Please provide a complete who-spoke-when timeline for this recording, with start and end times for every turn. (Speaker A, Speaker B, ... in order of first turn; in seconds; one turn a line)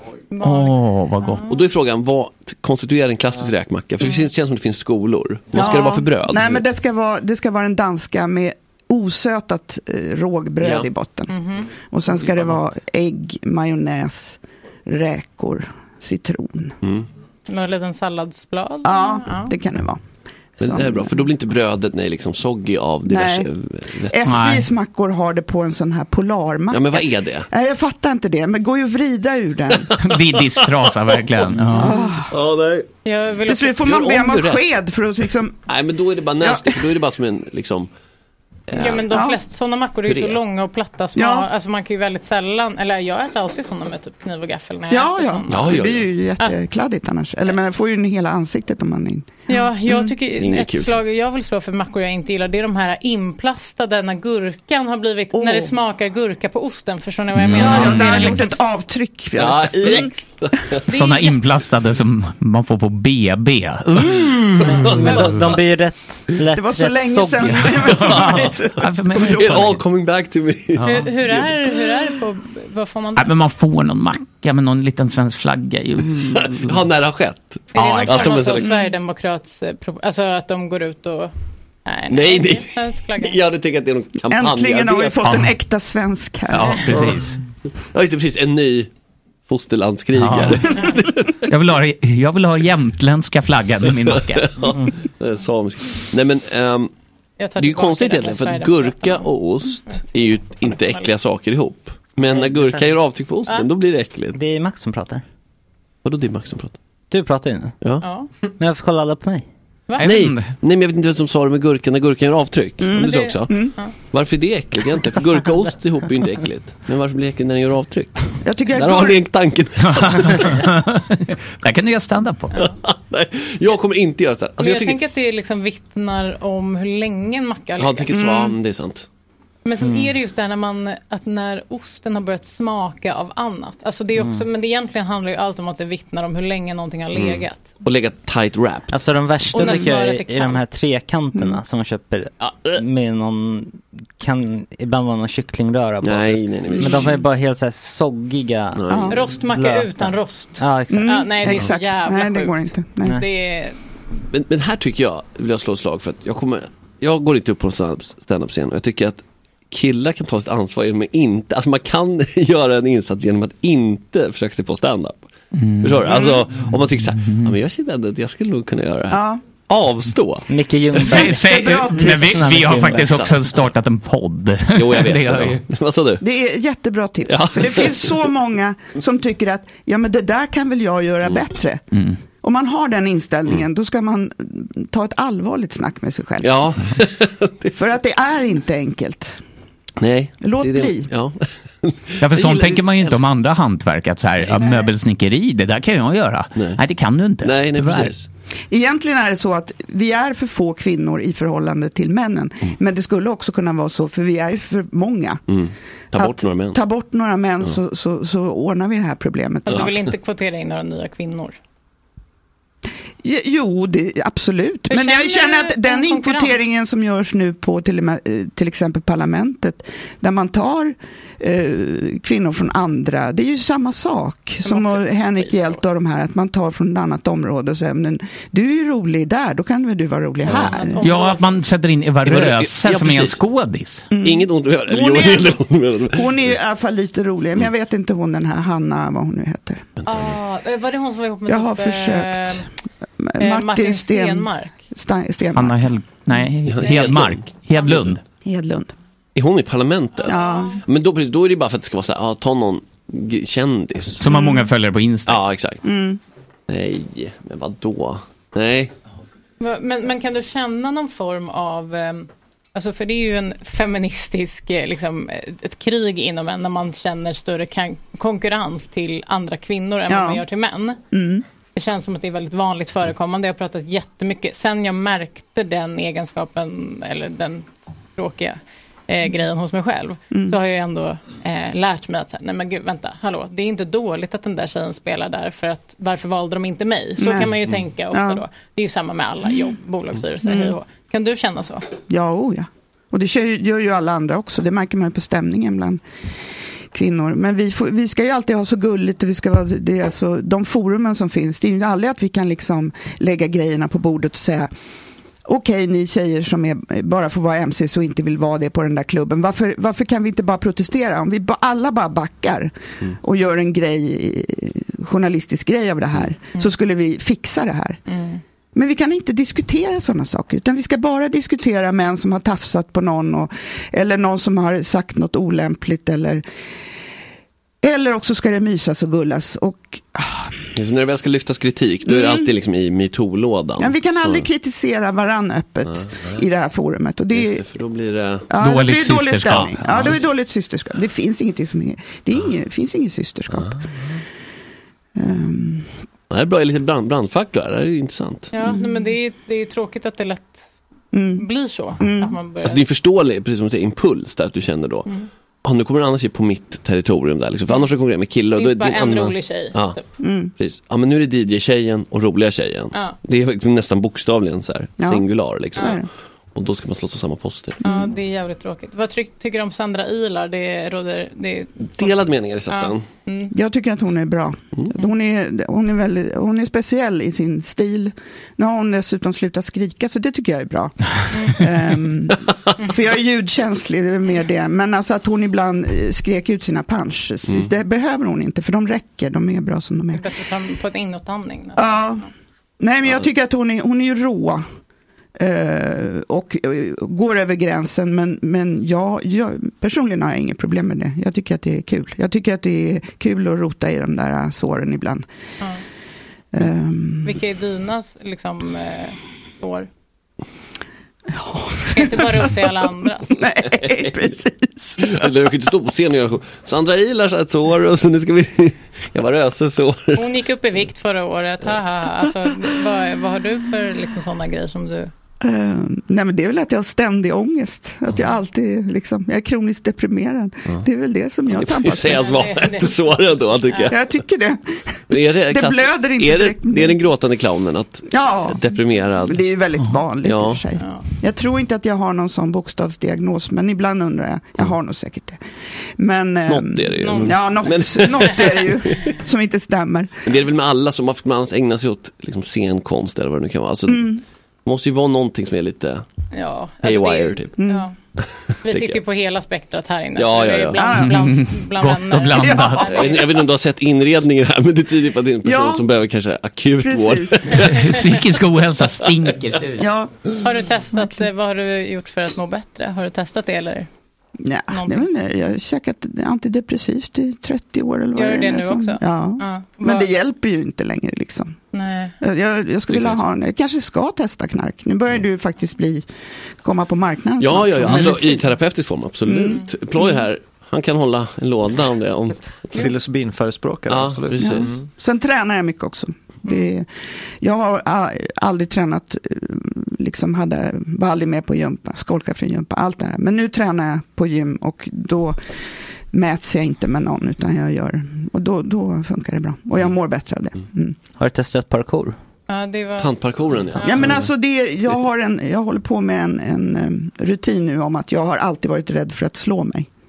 Speaker A: 0.3-1.6
Speaker B: 0.4-1.4
Speaker C: 1.4-6.6
Speaker D: 5.5-16.8
Speaker C: 10.6-10.9
Speaker A: 11.3-11.7
Speaker A: 17.5-19.5
Speaker D: 18.8-20.0
Speaker D: 20.6-21.3
Speaker C: 20.6-24.3
Speaker D: 23.1-23.5
Speaker D: 24.1-29.9
Speaker B: 24.2-24.7
Speaker C: 26.7-27.5
Speaker C: 29.9-30.6
Speaker B: 30.0-32.0
Speaker D: 31.7-32.3
Speaker C: 32.3-32.9
Speaker A: 33.0-33.8
Speaker D: 33.5-35.7
Speaker C: 33.8-34.7
Speaker C: 35.7-37.9
Speaker D: 36.4-37.0
Speaker C: 38.7-39.1
Speaker A: 38.8-45.9
Speaker D: 39.1-39.4
Speaker C: 40.1-40.4
Speaker D: 41.2-41.5
Speaker D: 44.9-50.1
Speaker C: 45.5-46.1
Speaker A: 49.5-58.6
Speaker C: 50.4-51.0
Speaker D: 55.3-55.7
Speaker B: 57.4-58.4
Speaker D: 57.6-60.2
Speaker C: 59.4-60.8
Speaker A: 60.9-61.4
Speaker B: 60.9-64.7
Speaker C: 64.1-65.6
Speaker A: 64.7-65.3
Speaker E: 65.0-67.9
Speaker D: 66.5-68.7
Speaker B: 67.4-69.8
Speaker C: 67.9-71.5
Speaker B: 70.8-71.0
Speaker A: 70.8-73.3
Speaker B: 73.2-76.8
Speaker C: 76.3-78.7
Speaker A: 77.7-81.3
Speaker B: 77.8-78.5
Speaker D: 78.6-78.9
Speaker A: 81.8-83.4
Speaker C: 82.1-85.4
Speaker D: 84.2-87.0
Speaker B: 85.2-85.5
Speaker B: 86.5-87.4
Speaker C: 86.8-87.3
Speaker C: 87.9-88.9
Speaker C: 89.5-91.5
Speaker B: 90.2-90.8
Speaker B: 91.4-94.6
Speaker C: 94.3-96.9
Speaker A: 97.4-99.3
Speaker C: 97.6-104.4
Speaker A: 99.9-101.1
Speaker E: 102.3-102.9
Speaker E: 104.3-105.2
Speaker C: 106.0-106.8
Speaker E: 107.1-107.8
Speaker A: 108.0-108.3
Speaker E: 108.6-109.5
Speaker B: 110.0-110.5
Speaker C: 110.0-120.7
Speaker D: 112.8-113.8
Speaker A: 113.0-113.9
Speaker D: 118.4-119.3
Speaker B: 119.8-122.6
Speaker C: 122.6-125.0
Speaker A: 124.6-128.1
Speaker C: 127.8-129.1
Speaker D: 128.1-128.6
Speaker A: 129.7-137.7
Speaker C: 137.2-138.9
Speaker E: 138.9-148.8
Speaker A: 139.5-140.6
Speaker A: 142.4-142.7
Speaker C: 146.0-147.2
Speaker C: 148.8-149.2
Speaker D: 148.9-149.2
Speaker A: 149.1-153.8
Speaker E: 149.4-151.2
Speaker D: 150.9-153.2
Speaker C: 154.3-165.3
Speaker B: 165.5-167.6
Speaker C: 165.8-170.5
Speaker D: 166.1-166.4
Speaker D: 169.1-169.4
Speaker E: 170.5-173.1
Speaker B: 170.9-175.6
Speaker D: 171.1-172.5
Speaker C: 173.0-173.3
Speaker C: 174.7-176.2
Speaker D: 176.2-181.8
Speaker C: 177.3-178.2
Speaker B: 181.9-182.2
Speaker D: 182.4-186.7
Speaker C: 186.4-187.7
Speaker D: 187.7-189.4
Speaker C: 190.0-193.2
Speaker D: 190.4-191.1
Speaker B: 192.2-198.1
Speaker C: 196.6-196.8
Speaker C: 197.4-198.3
Speaker D: 198.7-205.4
Speaker C: 205.5-206.8
Speaker D: 206.1-209.9
Speaker A: 209.7-211.6
Speaker D: 213.2-231.0
Speaker A: 214.9-216.5
Speaker A: 224.6-225.8
Speaker C: 230.5-230.8
Speaker A: 230.5-231.4
Speaker B: 231.0-234.1
Speaker C: 232.2-233.4
Speaker D: 234.1-239.8
Speaker C: 234.2-236.5
Speaker C: 240.0-240.4
Speaker A: 240.1-242.7
Speaker D: 241.5-242.7
Speaker D: 243.2-245.9
Speaker A: 243.4-244.8
Speaker B: 245.5-248.2
Speaker C: 246.7-247.5
Speaker D: 248.4-248.9
Speaker C: 249.3-254.2
Speaker D: 250.2-250.8
Speaker A: 250.3-250.8
Speaker B: 254.2-255.4
Speaker D: 254.3-254.7
Speaker C: 255.3-255.8
Speaker D: 255.8-256.2
Speaker C: 256.7-258.9
Speaker A: 259.6-271.0
Speaker D: 270.1-270.4
Speaker D: 271.1-271.4
Speaker A: 271.8-291.9
Speaker D: 280.3-280.6
Speaker D: 287.2-287.5
Speaker D: 288.1-288.4
Speaker D: 290.4-290.8
Speaker D: 292.1-296.0
Speaker D: 296.9-304.7
Speaker D: 305.4-318.0
Speaker A: 318.1-318.4
Speaker D: 318.7-326.4
Speaker D: 327.8-330.6
Speaker C: 330.8-334.5
Speaker D: 332.1-332.5
Speaker D: 333.8-337.6
Speaker C: 335.9-336.4
Speaker C: 337.3-338.5
Speaker D: 338.5-343.8
Speaker B: 338.6-340.2
Speaker C: 339.9-340.3
Speaker C: 343.5-344.1
Speaker D: 345.2-345.9
Speaker C: 346.3-348.5
Speaker A: 348.5-350.7
Speaker D: 348.6-349.1
Speaker D: 351.1-351.5
Speaker A: 351.4-352.8
Speaker D: 352.0-352.4
Speaker C: 352.6-355.1
Speaker C: 355.6-360.0
Speaker A: 358.6-360.0
Speaker D: 360.2-360.5
Speaker C: 360.6-366.0
Speaker D: 365.0-366.1
Speaker C: 366.5-367.8
Speaker D: 367.8-368.1
Speaker A: 367.8-372.2
Speaker C: 371.8-373.1
Speaker A: 372.7-373.5
Speaker D: 373.5-390.2
Speaker A: 381.3-381.6
Speaker A: 390.1-392.1
Speaker D: 391.8-392.3
Speaker D: 392.8-394.6
Speaker D: 395.4-405.2
Speaker D: 406.5-407.4
Speaker A: 407.2-409.9
Speaker D: 411.3-412.7
Speaker A: 411.9-413.4
Speaker D: 413.3-415.3
Speaker C: 415.0-420.3
Speaker A: 420.1-425.1
Speaker D: 425.4-432.3
Speaker C: 431.5-434.0
Speaker A: 432.1-432.9
Speaker A: 433.7-433.9
Speaker D: 433.9-437.1
Speaker C: 435.1-439.4
Speaker D: 438.1-445.4
Speaker C: 440.2-440.6
Speaker A: 440.8-441.1
Speaker D: 446.0-450.3
Speaker C: 446.5-449.1
Speaker A: 447.0-448.4
Speaker C: 450.3-454.1
Speaker D: 453.9-454.2
Speaker C: 454.6-456.1
Speaker A: 456.3-457.9
Speaker C: 456.8-457.5
Speaker D: 457.6-457.9
Speaker C: 458.2-459.0
Speaker A: 458.6-463.5
Speaker C: 460.2-460.9
Speaker D: 460.8-461.1
Speaker B: 460.9-463.0
Speaker D: 462.4-462.9
Speaker C: 462.8-467.9
Speaker D: 465.4-465.9
Speaker D: 466.8-467.6
Speaker B: 467.6-469.9
Speaker D: 469.8-470.1
Speaker A: 470.4-473.9
Speaker D: 471.0-471.2
Speaker D: 474.4-481.6
Speaker A: 474.7-475.1
Speaker A: 478.1-480.1
Speaker A: 481.7-482.1
Speaker D: 482.2-486.1
Speaker C: 482.9-483.2
Speaker D: 486.6-488.5
Speaker C: 487.4-492.9
Speaker D: 489.2-490.2
Speaker F: 492.7-494.9
Speaker C: 493.9-494.8
Speaker D: 494.4-496.9
Speaker D: 497.4-505.4
Speaker D: 506.1-511.0
Speaker E: 511.2-512.2
Speaker A: 512.5-514.1
Speaker C: 513.0-514.3
Speaker D: 513.8-519.9